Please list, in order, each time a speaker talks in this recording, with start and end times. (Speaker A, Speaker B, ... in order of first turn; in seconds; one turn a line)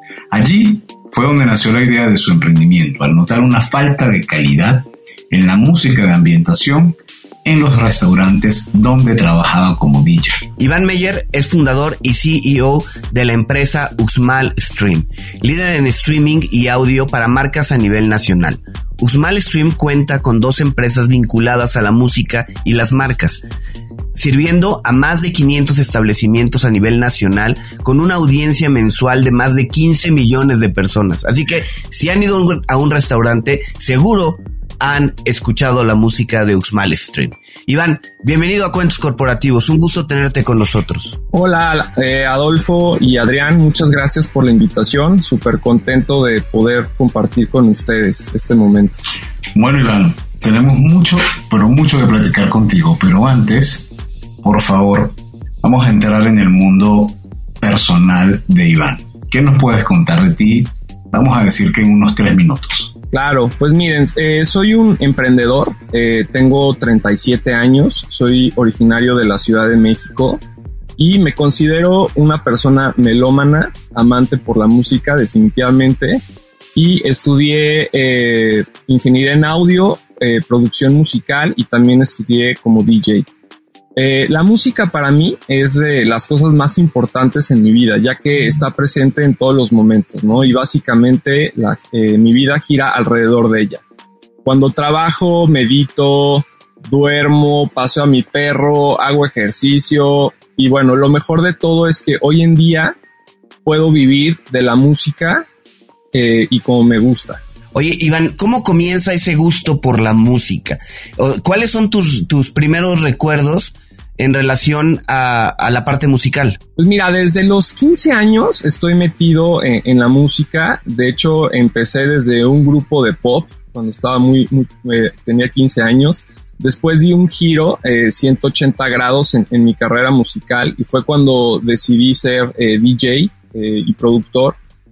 Speaker A: 0.3-10.4
Speaker B: 10.6-23.4
Speaker B: 24.1-41.2
Speaker C: 41.3-49.0
Speaker A: 49.5-53.9
Speaker A: 54.4-62.9
Speaker C: 63.1-70.4
Speaker C: 71.0-76.2
Speaker C: 76.7-83.3
Speaker C: 84.0-93.8
Speaker C: 94.4-103.0
Speaker C: 103.6-105.5
Speaker C: 106.1-107.4
Speaker B: 107.7-116.6
Speaker C: 116.8-134.6